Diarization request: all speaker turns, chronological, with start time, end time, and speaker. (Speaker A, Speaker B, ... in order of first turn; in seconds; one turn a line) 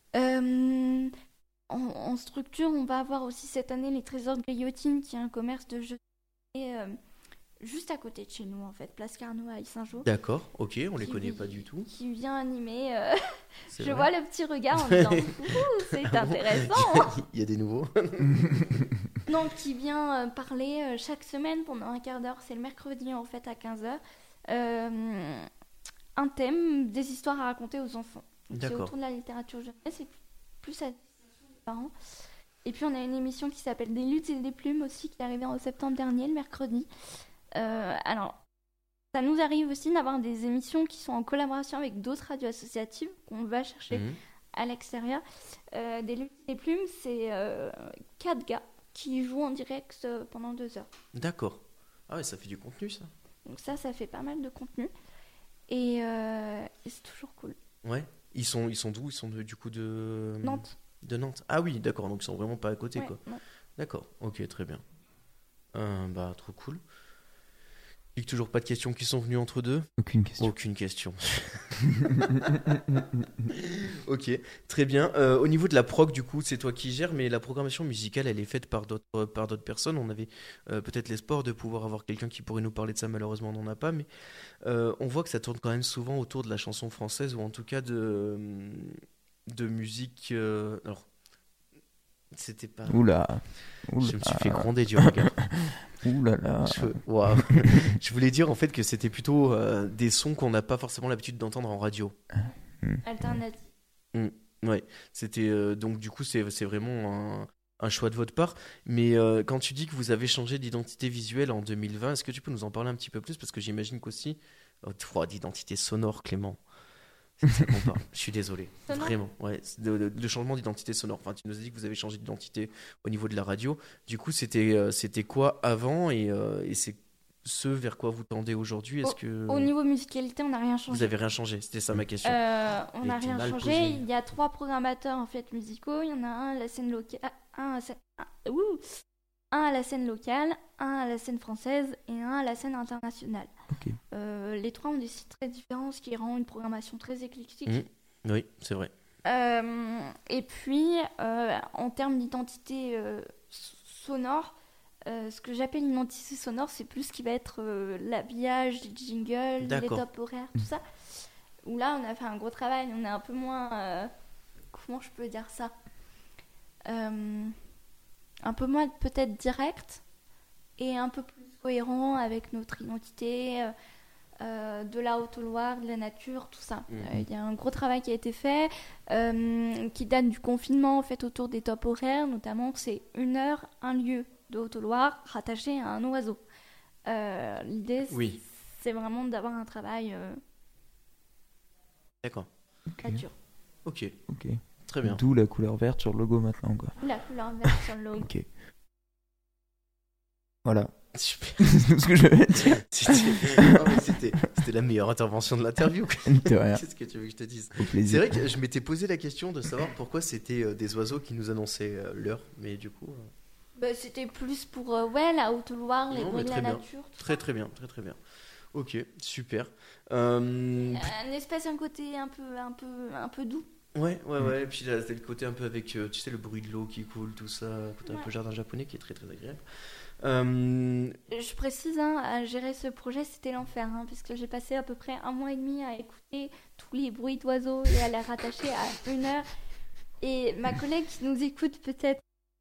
Speaker A: 0.1-1.1
Speaker A: 1.7-6.0
Speaker A: 6.5-7.0
Speaker A: 7.6-10.1
Speaker B: 10.1-11.9
Speaker A: 11.0-17.2
Speaker B: 13.7-14.1
Speaker B: 14.8-18.9
Speaker A: 19.3-25.5
Speaker A: 26.1-31.9
Speaker B: 28.5-28.9
Speaker A: 32.6-36.9
Speaker A: 37.5-38.4
Speaker A: 39.1-50.9
Speaker B: 43.9-44.2
Speaker B: 51.1-53.1
Speaker A: 53.5-54.9
Speaker A: 55.7-57.5
Speaker B: 57.8-63.2
Speaker A: 60.4-60.7
Speaker A: 63.0-63.4
Speaker B: 63.8-64.8
Speaker B: 65.7-66.8
Speaker B: 68.1-69.9
Speaker C: 70.0-70.5
Speaker B: 70.4-84.1
Speaker C: 72.0-73.2
Speaker B: 84.6-91.0
Speaker B: 92.3-93.0
Speaker C: 92.9-98.0
Speaker B: 94.0-95.4
Speaker B: 96.6-102.2
Speaker C: 102.4-103.4
Speaker A: 103.0-103.7
Speaker B: 104.1-116.6
Speaker B: 117.4-129.7
Speaker A: 118.9-119.1
Speaker A: 129.0-131.1
Speaker B: 130.9-132.4
Speaker A: 132.2-139.0
Speaker B: 133.0-134.0
Speaker A: 139.5-143.5
Speaker C: 143.7-144.0
Speaker A: 144.1-147.8
Speaker B: 147.7-148.9
Speaker A: 149.2-154.6
Speaker A: 155.1-160.8
Speaker B: 159.6-160.0
Speaker A: 161.6-164.1
Speaker A: 164.7-165.7
Speaker A: 166.9-167.6
Speaker A: 168.4-170.0
Speaker A: 170.8-173.7
Speaker A: 174.4-186.4
Speaker A: 187.1-190.4
Speaker B: 188.1-188.4
Speaker B: 192.2-192.5
Speaker C: 192.9-193.2
Speaker A: 193.0-193.3
Speaker B: 193.9-194.2
Speaker C: 194.3-197.0
Speaker B: 194.8-195.2
Speaker A: 197.0-198.3
Speaker C: 197.6-198.5
Speaker C: 200.6-200.9
Speaker B: 201.1-201.8
Speaker C: 201.6-204.2
Speaker B: 202.6-213.3
Speaker C: 206.3-206.8
Speaker C: 207.8-208.4
Speaker A: 213.8-217.4
Speaker B: 216.1-218.2
Speaker B: 218.7-221.1
Speaker A: 220.8-223.7
Speaker B: 223.9-229.6
Speaker B: 230.2-231.2
Speaker A: 231.3-239.5
Speaker A: 240.2-242.2